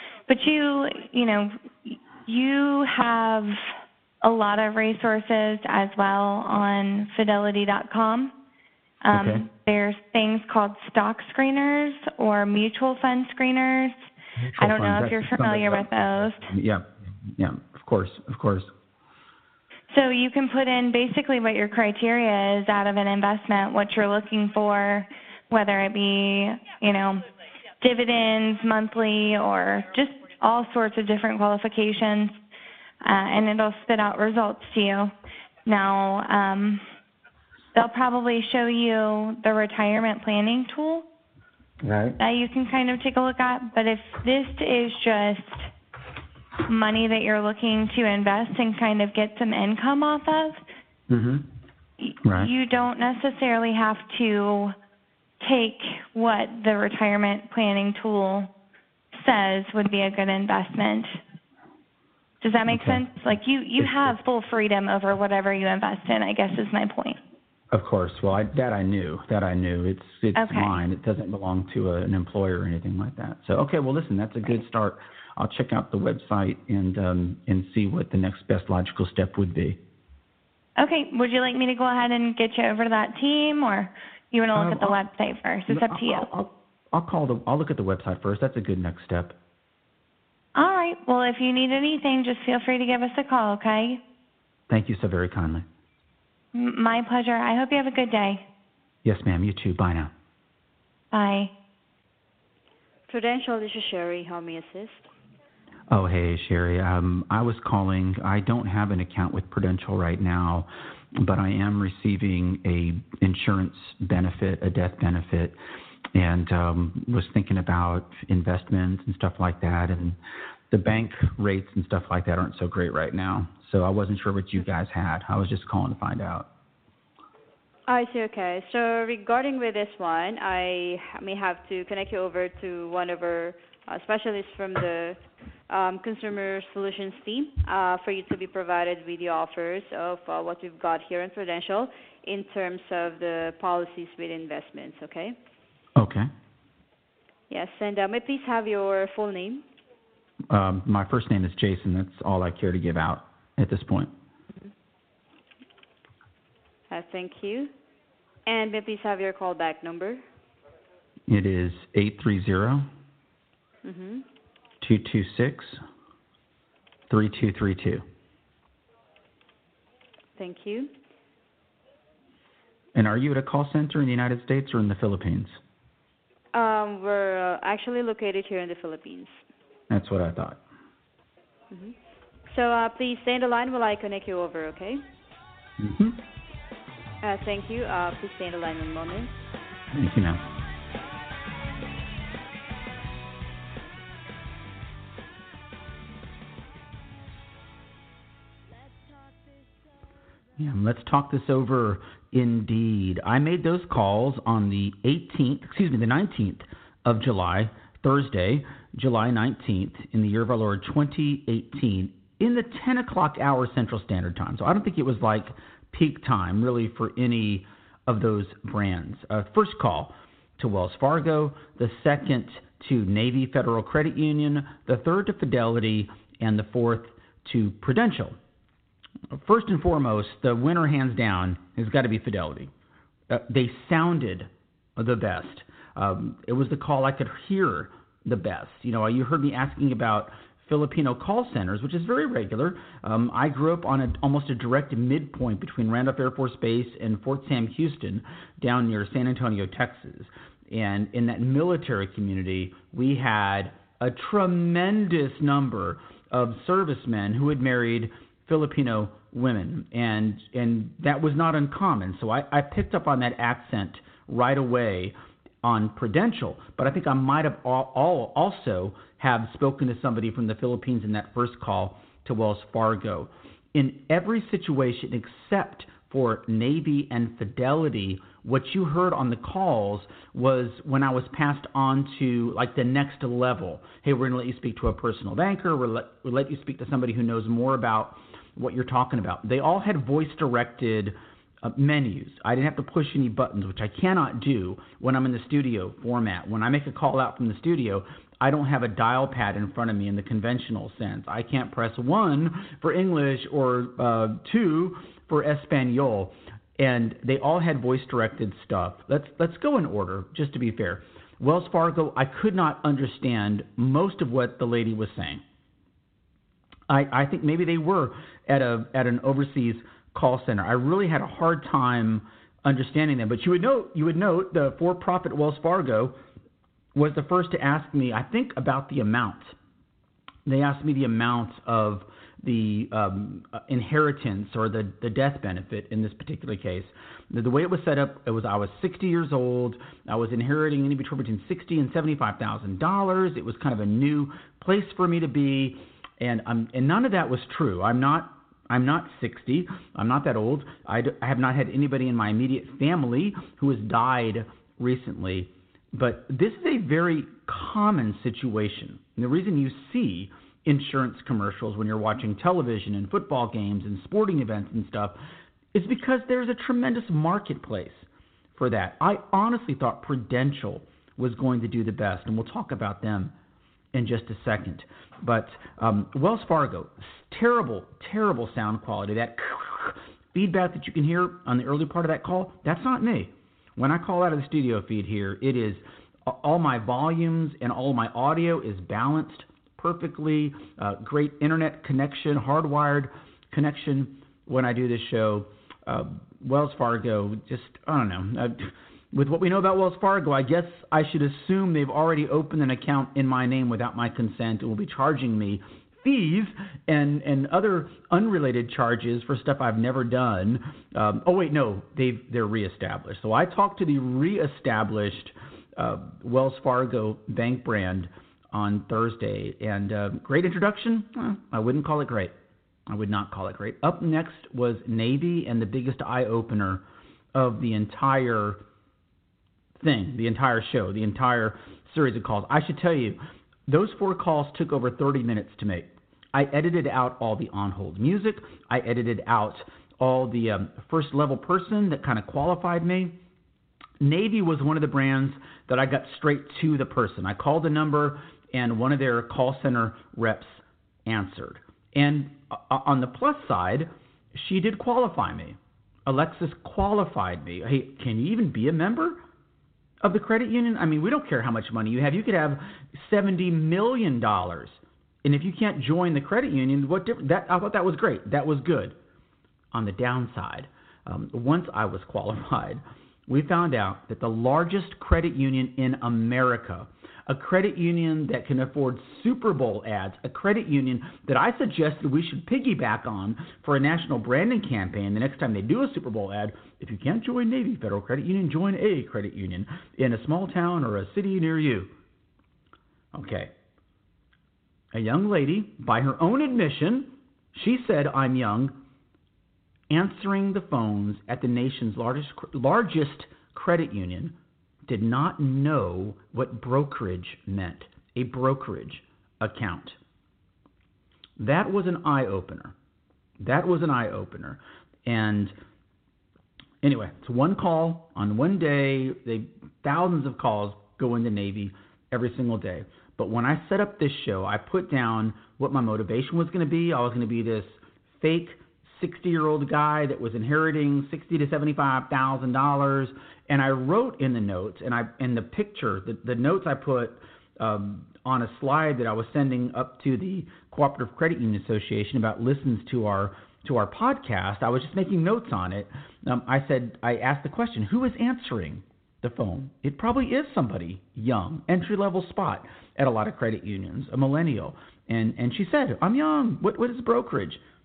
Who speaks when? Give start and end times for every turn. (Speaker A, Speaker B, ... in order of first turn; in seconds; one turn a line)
Speaker A: 0.3-3.6
Speaker A: 4.2-8.3
Speaker A: 9.0-14.0
Speaker B: 9.1-9.5
Speaker B: 14.4-18.7
Speaker A: 14.6-16.5
Speaker A: 19.9-27.2
Speaker A: 27.8-32.4
Speaker A: 33.0-35.1
Speaker A: 35.7-36.8
Speaker A: 37.8-41.0
Speaker B: 41.8-42.2
Speaker A: 42.2-45.7
Speaker A: 46.7-50.6
Speaker B: 51.1-51.5
Speaker A: 52.0-54.7
Speaker B: 52.2-52.5
Speaker A: 55.4-58.5
Speaker A: 59.1-61.2
Speaker A: 62.4-67.2
Speaker B: 62.7-63.0
Speaker B: 63.8-64.1
Speaker B: 67.7-79.8
Speaker A: 70.3-70.8
Speaker A: 80.8-86.3
Speaker B: 84.5-85.0
Speaker B: 85.7-89.3
Speaker A: 90.5-94.0
Speaker B: 94.7-95.7
Speaker A: 96.5-98.4
Speaker B: 99.0-100.1
Speaker A: 101.1-101.5
Speaker C: 103.1-105.1
Speaker B: 105.9-115.6
Speaker B: 116.1-120.2
Speaker B: 120.7-126.5
Speaker C: 127.9-145.4
Speaker B: 146.0-146.3
Speaker C: 147.5-149.6
Speaker B: 150.5-154.1
Speaker C: 156.9-157.7
Speaker C: 158.5-160.2
Speaker B: 161.3-162.9
Speaker C: 163.8-164.2
Speaker B: 164.8-165.8
Speaker B: 167.1-168.1
Speaker C: 170.4-170.9
Speaker B: 172.9-175.6
Speaker C: 176.5-179.4
Speaker B: 179.9-180.6
Speaker C: 181.7-181.9
Speaker C: 182.5-185.0
Speaker B: 185.8-186.2
Speaker C: 187.2-189.3
Speaker B: 189.9-190.4
Speaker B: 200.6-228.4
Speaker B: 229.3-232.7
Speaker B: 233.3-315.4
Speaker B: 316.9-326.2
Speaker B: 326.9-329.6
Speaker B: 330.5-365.2
Speaker B: 365.7-373.3
Speaker B: 373.9-422.3
Speaker B: 422.9-428.6
Speaker B: 429.8-443.2
Speaker B: 444.0-459.2
Speaker B: 460.0-469.0
Speaker B: 469.7-491.9
Speaker B: 493.1-493.5
Speaker B: 494.9-498.8
Speaker B: 499.9-510.0
Speaker B: 511.4-512.7
Speaker B: 513.4-515.5
Speaker B: 516.8-557.6